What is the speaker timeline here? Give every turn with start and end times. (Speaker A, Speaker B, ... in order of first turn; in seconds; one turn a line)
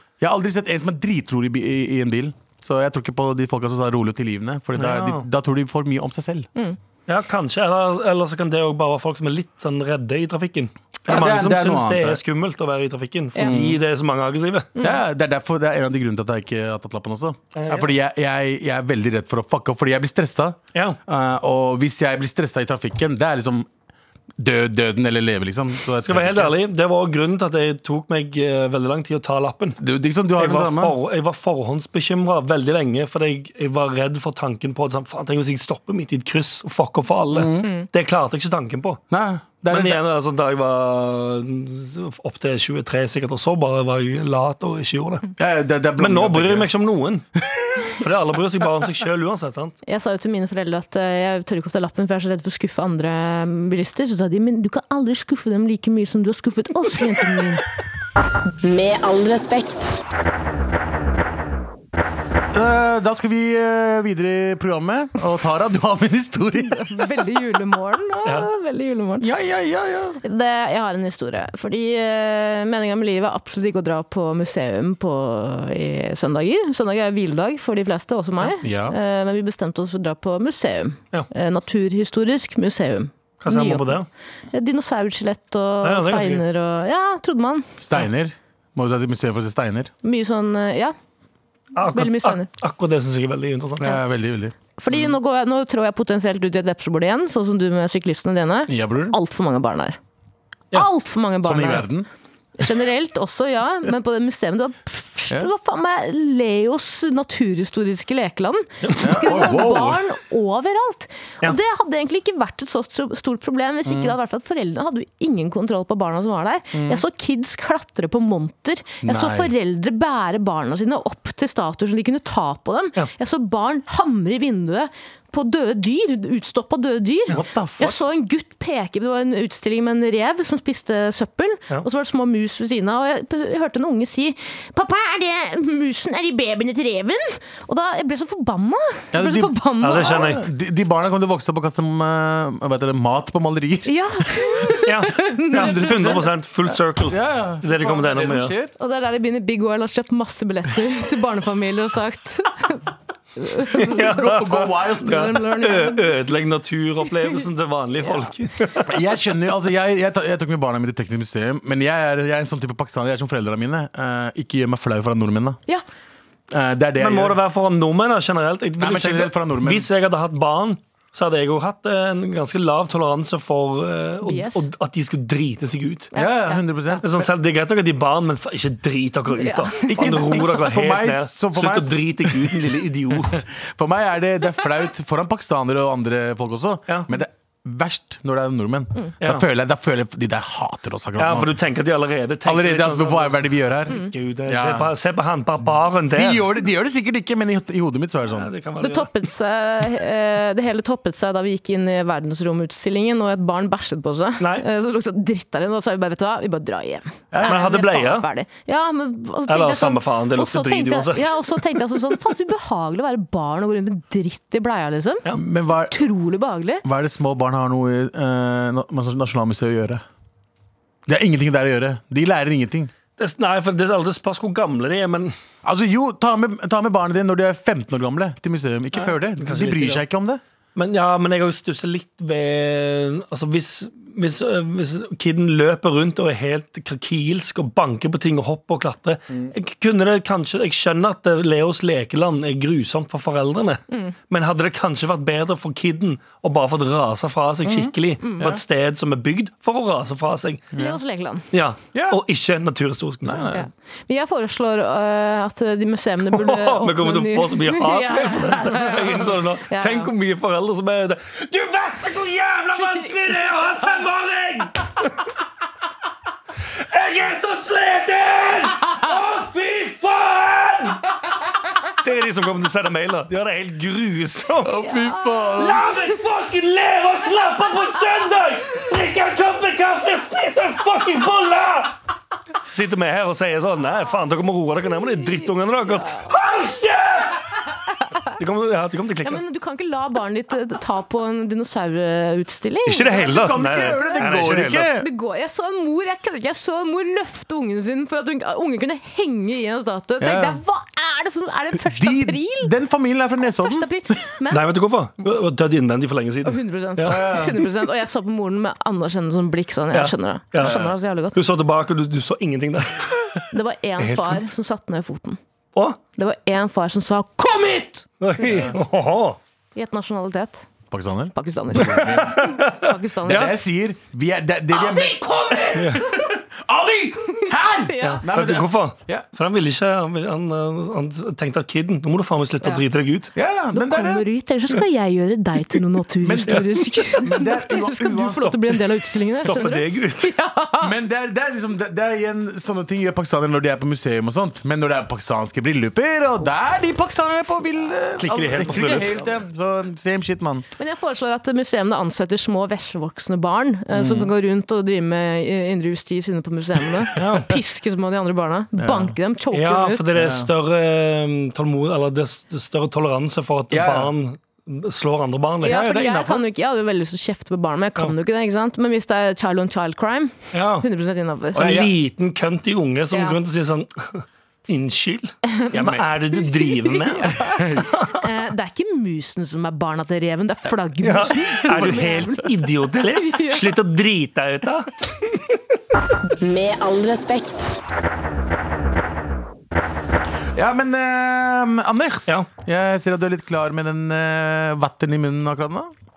Speaker A: 0.2-6.5
Speaker B: 4.8-5.3
Speaker B: 7.1-14.8
Speaker A: 11.1-12.2
Speaker A: 13.4-13.8
Speaker A: 14.8-23.7
Speaker B: 17.5-17.9
Speaker A: 24.4-26.6
Speaker B: 26.0-29.8
Speaker A: 29.8-30.9
Speaker B: 30.4-39.0
Speaker A: 37.3-37.7
Speaker A: 39.1-40.0
Speaker B: 39.7-45.3
Speaker A: 45.4-46.7
Speaker B: 46.0-47.3
Speaker B: 47.8-49.7
Speaker C: 49.9-57.6
Speaker D: 58.6-60.0
Speaker A: 62.5-67.1
Speaker C: 66.7-69.3
Speaker B: 68.2-68.5
Speaker A: 69.2-70.2
Speaker C: 70.2-84.0
Speaker A: 78.6-79.0
Speaker B: 83.4-84.0
Speaker C: 84.5-87.7
Speaker B: 85.8-86.4
Speaker A: 87.8-89.9
Speaker C: 90.0-90.9
Speaker B: 91.7-94.0
Speaker C: 91.9-92.5
Speaker A: 93.8-94.5
Speaker C: 94.8-100.0
Speaker A: 98.7-99.2
Speaker C: 100.7-101.9
Speaker A: 101.4-102.1
Speaker C: 102.6-140.3
Speaker B: 108.8-109.6
Speaker A: 109.0-110.0
Speaker A: 113.9-114.1
Speaker A: 116.7-117.0
Speaker A: 119.0-119.5
Speaker A: 127.3-128.0
Speaker A: 139.1-144.8
Speaker B: 139.8-140.4
Speaker C: 143.8-146.2
Speaker B: 144.8-148.5
Speaker A: 145.5-148.7
Speaker C: 148.8-156.0
Speaker B: 153.7-158.9
Speaker A: 154.0-155.4
Speaker C: 158.0-158.3
Speaker A: 158.8-165.6
Speaker A: 166.5-167.4
Speaker B: 167.0-176.1
Speaker A: 168.8-169.9
Speaker C: 174.2-174.6
Speaker C: 176.1-177.0
Speaker A: 176.1-177.2
Speaker B: 177.0-183.4
Speaker C: 179.4-180.4
Speaker A: 179.9-191.6
Speaker B: 191.2-196.5
Speaker A: 192.4-194.9
Speaker A: 196.1-198.5
Speaker B: 198.3-199.1
Speaker C: 198.8-215.2
Speaker B: 204.4-204.7
Speaker A: 207.3-207.6
Speaker B: 207.4-208.3
Speaker B: 209.5-211.6
Speaker A: 215.3-216.0
Speaker C: 215.9-216.8
Speaker A: 216.8-220.0
Speaker A: 221.1-222.9
Speaker B: 223.2-225.3
Speaker A: 225.6-230.4
Speaker B: 228.9-230.0
Speaker B: 230.8-250.7
Speaker A: 247.6-248.6
Speaker C: 248.2-248.5
Speaker A: 250.7-251.0
Speaker C: 250.8-251.4
Speaker B: 251.5-253.5
Speaker A: 251.9-252.2
Speaker A: 253.2-253.7
Speaker C: 253.5-260.1
Speaker B: 256.3-265.2
Speaker B: 266.7-271.1
Speaker B: 271.9-274.9
Speaker A: 274.6-275.9
Speaker C: 274.9-275.2
Speaker B: 275.5-281.9
Speaker B: 282.6-287.6
Speaker C: 285.9-286.3
Speaker B: 288.3-289.4
Speaker C: 289.2-294.3
Speaker B: 292.9-294.9
Speaker A: 293.1-295.1
Speaker C: 295.0-302.7
Speaker A: 300.2-300.6
Speaker A: 301.8-304.2
Speaker C: 303.4-304.7
Speaker B: 304.5-307.3
Speaker C: 306.4-311.4
Speaker A: 307.1-307.6
Speaker B: 309.9-313.4
Speaker A: 310.6-310.9
Speaker C: 313.5-315.4
Speaker B: 314.0-314.5
Speaker C: 316.2-318.4
Speaker B: 318.2-319.4
Speaker A: 318.4-318.7
Speaker C: 319.7-320.7
Speaker A: 320.9-322.6
Speaker C: 321.3-323.5
Speaker B: 321.8-323.5
Speaker A: 323.2-329.3
Speaker C: 325.2-325.6
Speaker B: 325.7-326.1
Speaker C: 327.4-328.2
Speaker B: 328.0-333.3
Speaker A: 333.3-334.2
Speaker C: 333.7-340.9
Speaker A: 336.2-338.5
Speaker B: 338.4-340.3
Speaker A: 340.8-350.7
Speaker B: 348.2-349.2
Speaker C: 350.8-360.0
Speaker A: 353.9-354.3
Speaker B: 357.1-357.6
Speaker A: 358.8-359.1
Speaker B: 359.5-365.8
Speaker A: 360.1-360.5
Speaker A: 363.7-364.1
Speaker A: 365.6-366.4
Speaker C: 365.6-371.6
Speaker B: 370.5-370.9
Speaker A: 371.5-371.9
Speaker B: 371.6-377.3
Speaker C: 373.1-373.4
Speaker C: 375.5-377.6
Speaker A: 377.2-378.0
Speaker C: 378.2-382.6
Speaker B: 381.0-385.6
Speaker C: 383.1-383.7
Speaker D: 386.4-387.8
Speaker A: 390.5-395.9